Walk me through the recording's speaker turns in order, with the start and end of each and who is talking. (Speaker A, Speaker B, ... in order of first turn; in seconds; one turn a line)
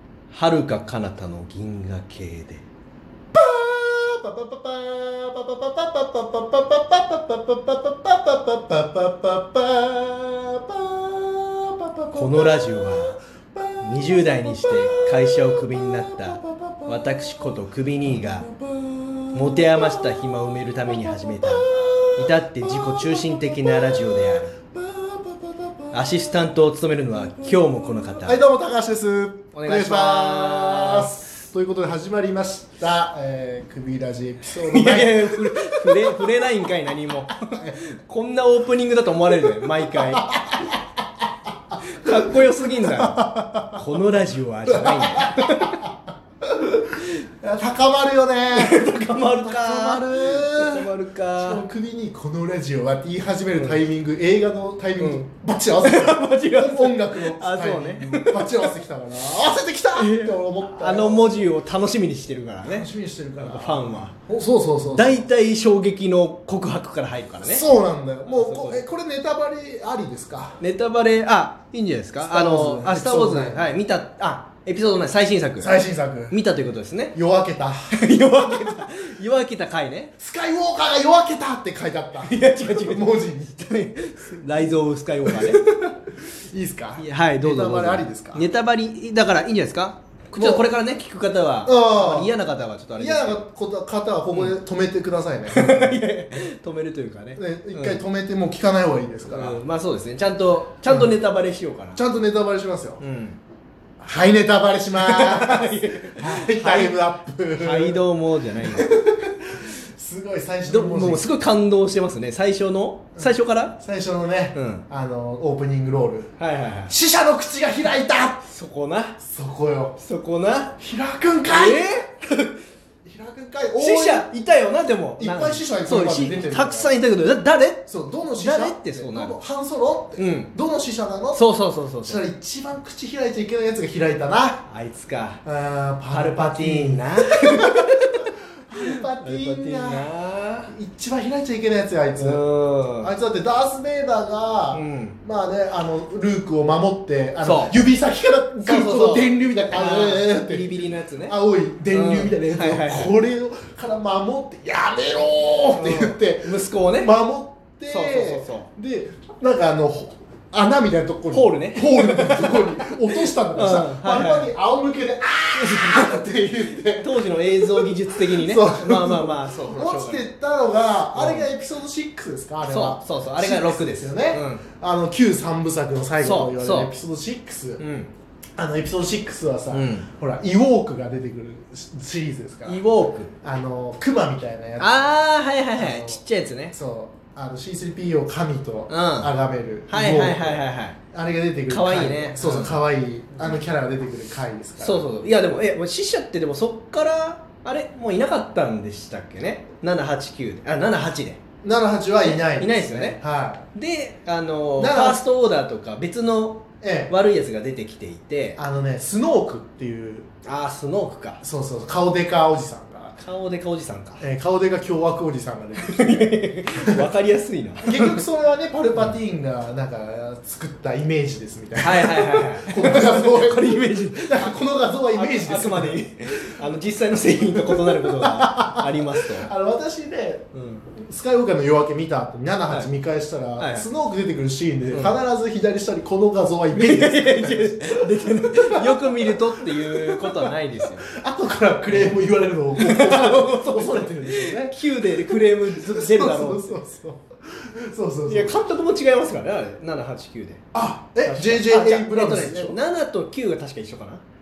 Speaker A: 0.3-2.6
Speaker B: 3.3-17.5
Speaker A: 12.1-13.2
Speaker A: 13.8-18.5
Speaker B: 18.0-26.5
Speaker A: 19.3-24.5
Speaker A: 25.9-28.4
Speaker B: 27.4-36.4
Speaker A: 29.5-31.3
Speaker A: 34.5-40.4
Speaker B: 37.5-37.8
Speaker B: 39.8-40.8
Speaker A: 41.8-45.8
Speaker B: 42.0-43.8
Speaker B: 44.7-61.5
Speaker A: 48.5-51.6
Speaker A: 53.5-53.8
Speaker A: 55.8-58.7
Speaker A: 59.9-62.9
Speaker B: 62.6-65.3
Speaker A: 63.4-64.1
Speaker A: 64.9-67.7
Speaker B: 67.4-70.6
Speaker A: 68.2-68.8
Speaker A: 70.6-75.7
Speaker B: 72.2-73.8
Speaker B: 75.6-76.4
Speaker A: 76.3-77.1
Speaker B: 77.1-78.0
Speaker A: 77.9-80.1
Speaker B: 78.5-78.7
Speaker B: 80.2-83.6
Speaker A: 82.2-85.6
Speaker B: 85.2-88.5
Speaker A: 87.0-93.4
Speaker B: 90.3-90.7
Speaker B: 91.6-92.3
Speaker B: 93.0-96.0
Speaker A: 95.5-98.0
Speaker B: 97.3-99.6
Speaker A: 99.2-102.0
Speaker B: 100.8-101.1
Speaker B: 101.9-103.0
Speaker A: 103.0-103.4
Speaker B: 104.0-108.0
Speaker A: 105.0-107.0
Speaker A: 107.6-108.9
Speaker B: 108.5-111.3
Speaker A: 110.7-113.8
Speaker B: 113.2-116.3
Speaker A: 114.5-114.8
Speaker A: 116.4-116.9
Speaker B: 116.9-118.4
Speaker A: 118.4-119.2
Speaker B: 119.2-120.0
Speaker A: 120.0-120.8
Speaker B: 120.8-122.1
Speaker A: 121.5-122.6
Speaker B: 123.0-124.3
Speaker A: 123.8-129.3
Speaker B: 125.2-127.0
Speaker B: 127.9-131.4
Speaker A: 130.2-130.5
Speaker A: 131.3-132.2
Speaker B: 132.0-134.7
Speaker A: 134.7-135.4
Speaker B: 135.4-140.1
Speaker A: 136.1-138.3
Speaker A: 138.8-140.7
Speaker B: 140.7-142.4
Speaker A: 142.2-143.1
Speaker B: 143.0-177.8
Speaker A: 144.7-145.2
Speaker A: 147.4-147.8
Speaker A: 148.6-151.3
Speaker A: 151.9-153.1
Speaker A: 155.7-157.1
Speaker A: 157.9-158.7
Speaker A: 161.3-164.5
Speaker A: 165.5-170.3
Speaker A: 171.1-171.5
Speaker A: 172.6-174.6
Speaker A: 176.2-176.9
Speaker A: 177.8-178.1
Speaker B: 178.6-182.8
Speaker A: 179.7-180.1
Speaker A: 182.7-183.3
Speaker B: 183.4-185.1
Speaker A: 184.8-186.8
Speaker B: 185.7-186.2
Speaker B: 186.7-190.6
Speaker A: 188.9-189.3
Speaker A: 189.9-191.0
Speaker B: 191.1-195.1
Speaker A: 191.7-193.6
Speaker A: 194.8-201.4
Speaker B: 201.6-203.7
Speaker A: 202.2-203.2
Speaker A: 203.7-208.6
Speaker B: 204.8-205.2
Speaker B: 206.8-207.1
Speaker B: 208.6-210.3
Speaker A: 210.4-211.4
Speaker B: 211.4-213.2
Speaker A: 213.2-214.2
Speaker B: 214.2-217.1
Speaker A: 215.8-218.2
Speaker B: 217.8-226.6
Speaker A: 221.8-224.6
Speaker A: 225.1-229.5
Speaker B: 227.4-248.6
Speaker A: 230.5-230.8
Speaker A: 233.6-233.9
Speaker A: 234.9-235.2
Speaker A: 236.7-241.1
Speaker A: 241.9-242.1
Speaker A: 242.8-246.8
Speaker A: 248.3-250.6
Speaker B: 250.7-252.8
Speaker A: 251.2-254.2